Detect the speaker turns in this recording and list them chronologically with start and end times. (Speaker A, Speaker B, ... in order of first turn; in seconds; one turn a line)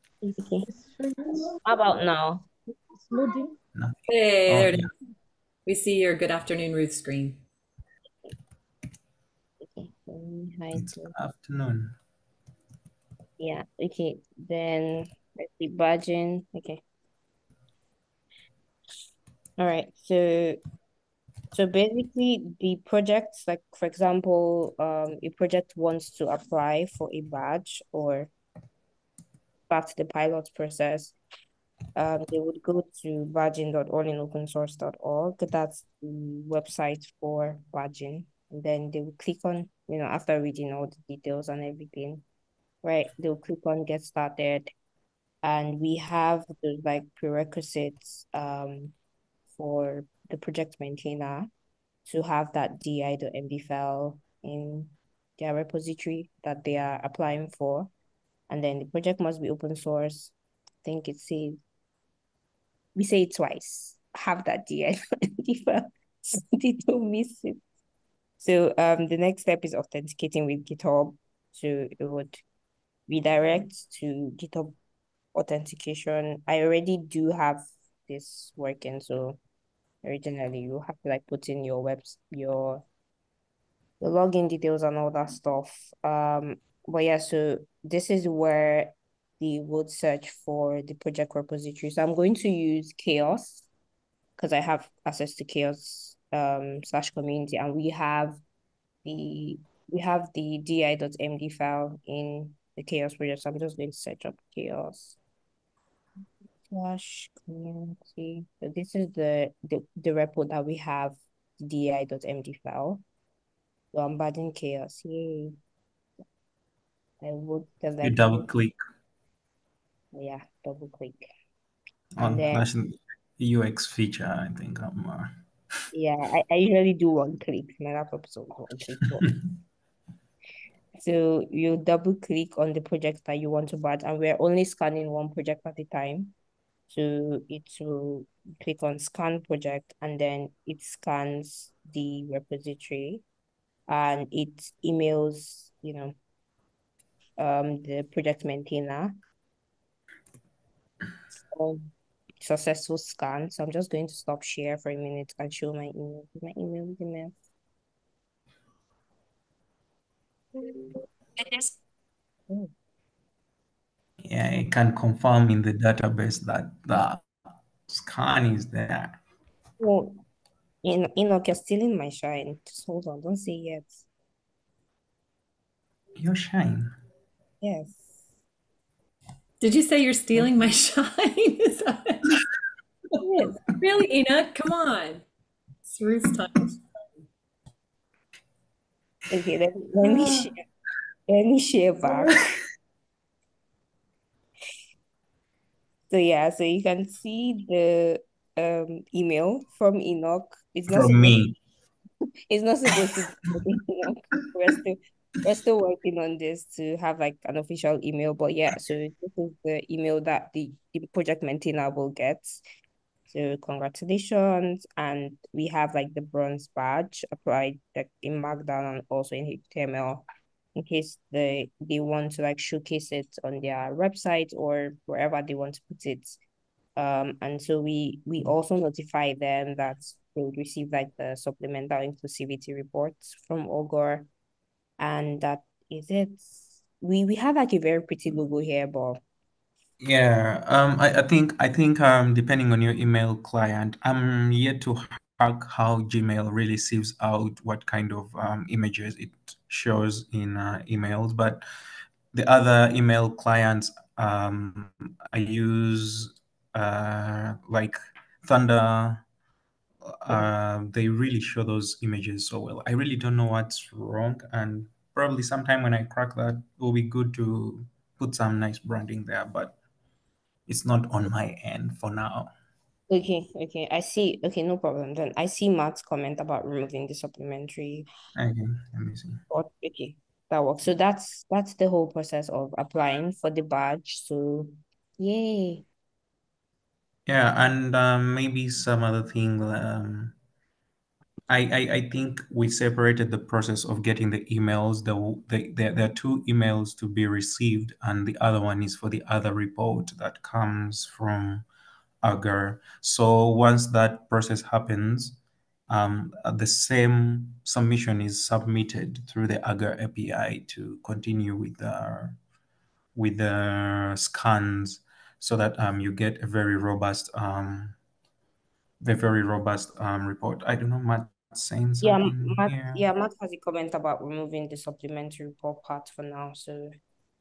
Speaker A: 0.2-0.7
Speaker A: 1.2-2.5
Speaker A: 3.0-3.5
Speaker B: 3.8-4.9
Speaker C: 4.1-4.9
Speaker C: 5.7-7.4
Speaker A: 9.6-11.2
Speaker B: 10.7-12.0
Speaker A: 13.4-16.8
Speaker A: 19.6-20.6
Speaker A: 21.5-28.3
Speaker A: 29.7-31.2
Speaker A: 32.0-42.2
Speaker A: 42.8-44.7
Speaker A: 45.4-48.9
Speaker A: 49.5-51.5
Speaker A: 52.1-57.9
Speaker A: 58.5-61.6
Speaker A: 63.0-67.6
Speaker A: 68.4-72.4
Speaker A: 73.1-74.8
Speaker A: 75.3-79.4
Speaker A: 80.0-82.8
Speaker A: 84.0-93.7
Speaker A: 94.4-98.4
Speaker A: 99.0-105.2
Speaker A: 106.6-113.0
Speaker A: 113.9-115.6
Speaker A: 117.2-118.5
Speaker B: 118.0-118.8
Speaker A: 120.1-121.3
Speaker B: 122.2-125.3
Speaker A: 122.2-122.7
Speaker A: 125.9-129.3
Speaker A: 131.0-136.3
Speaker A: 136.9-143.2
Speaker A: 143.9-146.1
Speaker A: 147.4-149.1
Speaker A: 151.5-151.9
Speaker A: 152.4-157.3
Speaker A: 160.6-161.7
Speaker B: 164.2-167.3
Speaker B: 167.9-169.2
Speaker A: 169.8-170.2
Speaker A: 170.8-174.1
Speaker B: 176.2-176.9
Speaker A: 177.6-178.1
Speaker C: 179.6-182.4
Speaker A: 183.2-183.6
Speaker C: 183.7-185.2
Speaker C: 185.8-187.0
Speaker A: 189.3-190.6
Speaker C: 190.0-190.5
Speaker A: 191.3-192.6
Speaker A: 196.1-201.4
Speaker B: 200.9-201.6
Speaker A: 202.5-212.6
Speaker A: 213.3-226.4
Speaker A: 227.0-234.3
Speaker A: 235.0-239.2
Speaker B: 240.0-251.6
Speaker B: 252.3-259.2
Speaker B: 260.1-269.8
Speaker B: 270.7-272.5
Speaker A: 273.1-278.1
Speaker B: 278.4-279.4
Speaker A: 279.5-285.8
Speaker B: 287.3-290.4
Speaker B: 291.5-301.7
Speaker B: 302.2-312.4
Speaker B: 313.1-318.0
Speaker B: 319.0-323.0
Speaker A: 322.0-327.0